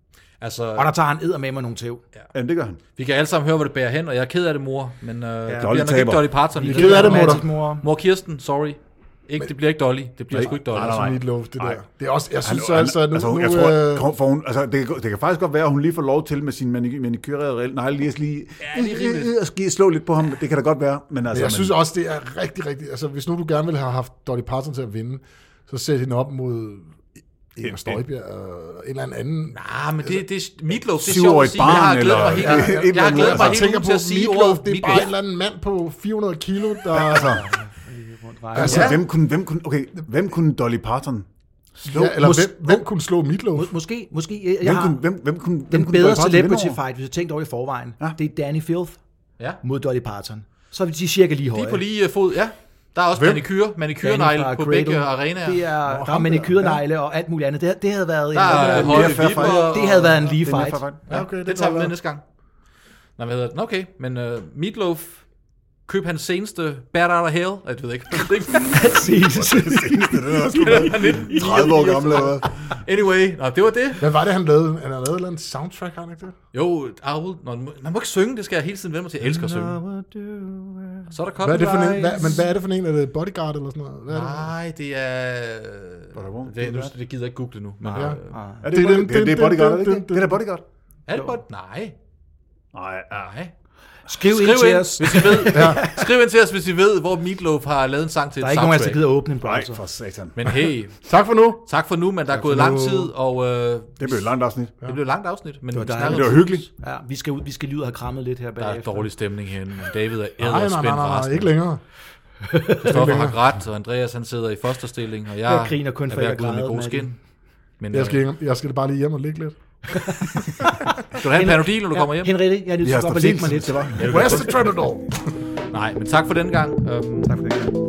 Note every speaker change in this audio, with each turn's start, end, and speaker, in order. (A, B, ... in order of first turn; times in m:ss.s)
0:00.4-0:00.9 A
0:00.7-0:02.0 B
0:02.3-0:02.8 C
0:03.0-0:11.0 A
0:05.4-0:05.7 B
0:05.6-0:06.4 C
0:06.5-0:07.8 B
0:06.6-0:07.4 D
0:10.3-0:11.8 C
0:10.5-0:14.1 D
0:12.4-0:21.8 C
0:18.6-0:19.3 A
0:21.3-0:27.0 D
0:27.5-0:30.2 D
0:27.6-0:28.0 C
0:29.5-0:35.1 A
0:31.0-0:33.7 C
0:32.1-0:37.4 D
0:36.9-0:37.4 C
0:37.1-0:39.0 B
0:38.5-0:39.0 D
0:38.6-0:41.3 C
0:38.6-0:39.0 A
0:41.8-0:43.7 D
0:41.9-0:42.8 B
0:43.5-0:45.0 B
0:44.6-0:46.8 C
0:45.7-0:49.0 B
0:49.6-0:51.8 B
0:51.5-0:55.7 A
0:53.1-0:53.4 D
0:54.0-1:00.8 B
0:55.9-0:56.8 D
0:58.3-1:00.2 A
0:58.5-1:01.0 C
1:01.1-1:01.9 D
1:01.1-1:02.2 A
1:03.2-1:05.2 A
1:05.8-1:09.1 A
1:08.6-1:12.5 B
1:09.3-1:12.5 C
1:10.5-1:14.1 A
1:14.0-1:16.3 D
1:16.5-1:19.8 A
1:19.2-1:21.1 B
1:21.1-1:22.4 A
1:21.4-1:24.5 D
1:24.1-1:28.3 A
1:26.1-1:26.9 C
1:27.8-1:28.6 B
1:28.6-1:30.6 C
1:28.7-1:30.4 D
1:31.1-1:31.9 A
1:32.7-1:33.3 C
1:33.1-1:33.5 A
1:34.1-1:36.1 B
1:34.3-1:39.0 A
1:35.5-1:35.8 D
1:38.4-1:39.8 B
1:39.4-1:40.5 C
1:40.4-1:41.1 A
1:41.0-1:41.6 D
1:41.6-1:46.6 A
1:42.3-1:43.1 D
1:44.0-1:44.7 C
1:45.7-1:49.1 B
1:46.1-1:46.6 C
1:48.6-1:51.5 A
1:50.4-1:51.8 D
1:52.4-1:53.0 B
1:52.8-1:57.2 A
1:52.9-1:53.4 D
1:55.4-1:57.1 B
1:57.8-1:58.2 A
1:57.9-1:59.6 D
1:59.9-2:04.1 B
2:01.1-2:02.3 A
2:02.8-2:04.5 C
2:04.0-2:04.5 A
2:04.0-2:05.2 D
2:05.7-2:07.3 A
2:07.2-2:07.7 B